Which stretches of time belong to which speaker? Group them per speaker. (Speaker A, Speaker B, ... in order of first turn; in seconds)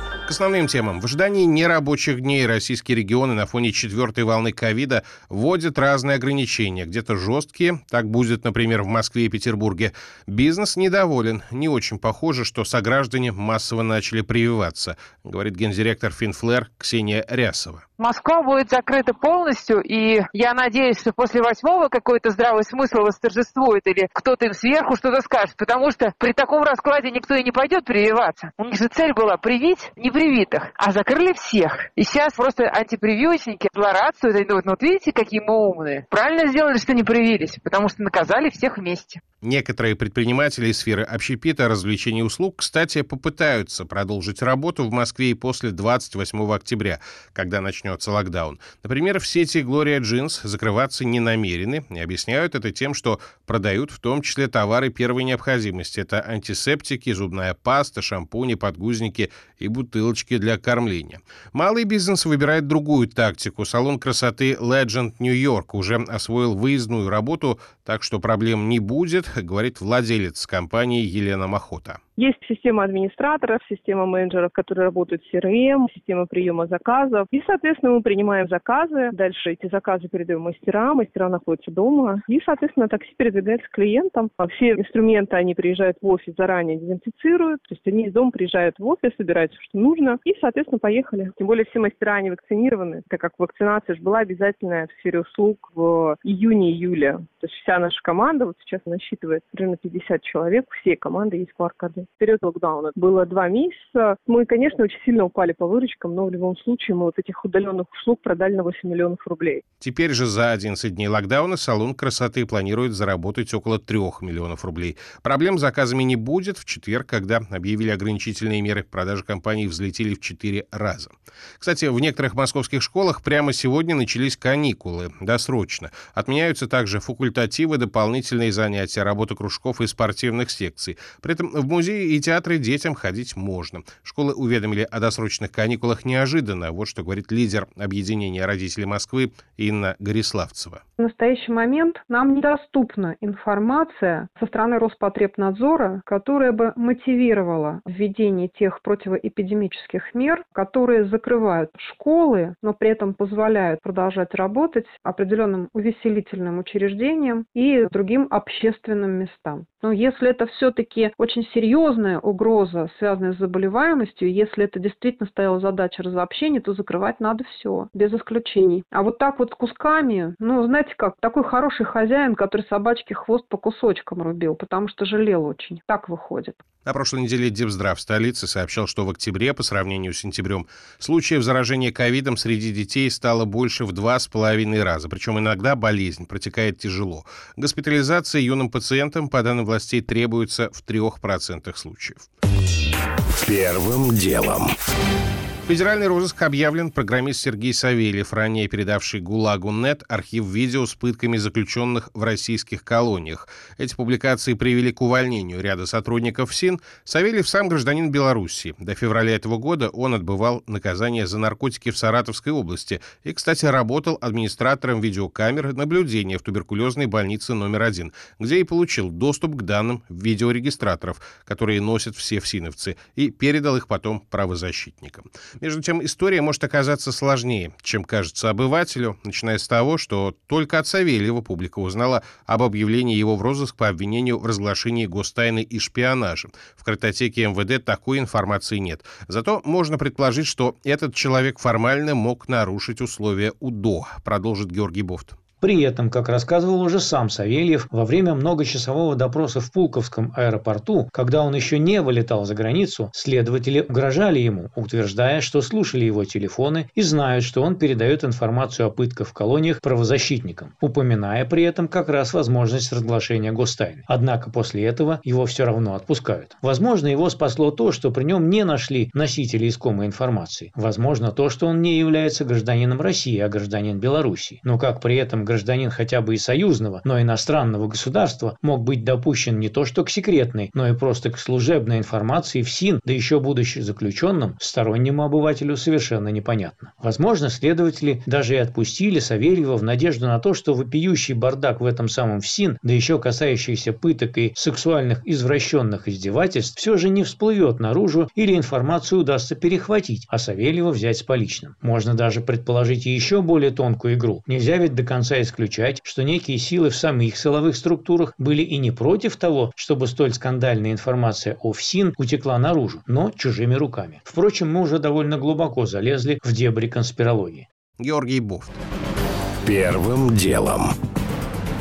Speaker A: 0.3-17.9, 39.4-72.0, 109.8-140.8, 176.9-192.3, 193.4-194.6, 195.7-245.4, 318.0-318.8, 320.2-320.6
Speaker B: 18.0-39.2
Speaker C: 72.2-109.6
Speaker D: 141.0-176.6
Speaker E: 193.4-194.6, 319.7-320.9
Speaker F: 245.6-317.7